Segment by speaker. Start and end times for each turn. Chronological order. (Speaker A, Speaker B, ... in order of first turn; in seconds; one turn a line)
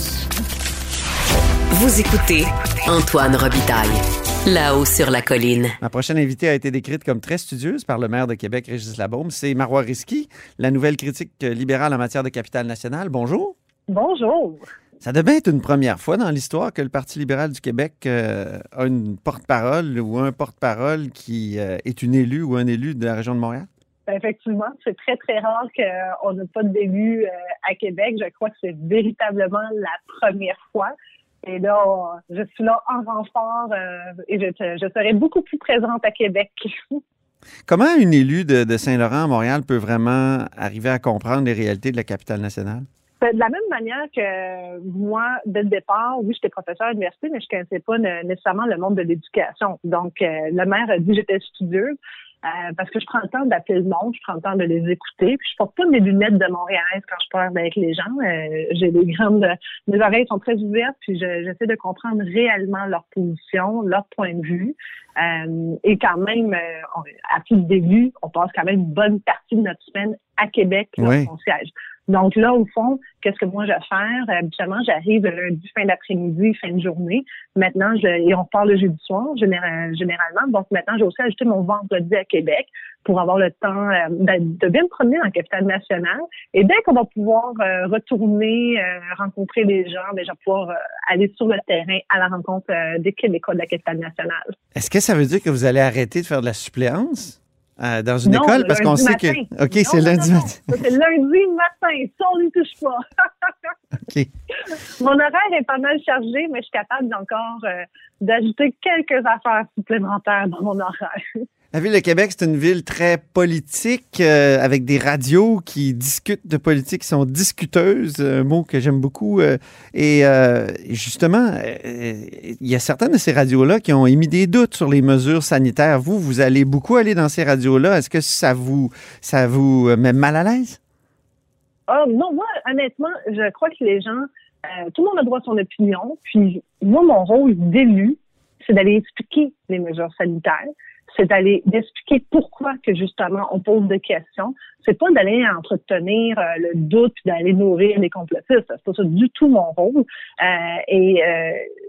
Speaker A: 1.7-5.8
Speaker B: 5.8-13.6
Speaker C: 13.9-14.7
Speaker B: 15.0-23.7
Speaker C: 24.1-37.0
Speaker B: 37.7-42.9
Speaker C: 43.2-94.5
Speaker B: 71.0-71.3
Speaker B: 94.8-100.7
Speaker C: 98.3-103.7
Speaker C: 104.7-111.4
Speaker B: 111.7-130.8
Speaker C: 131.9-151.7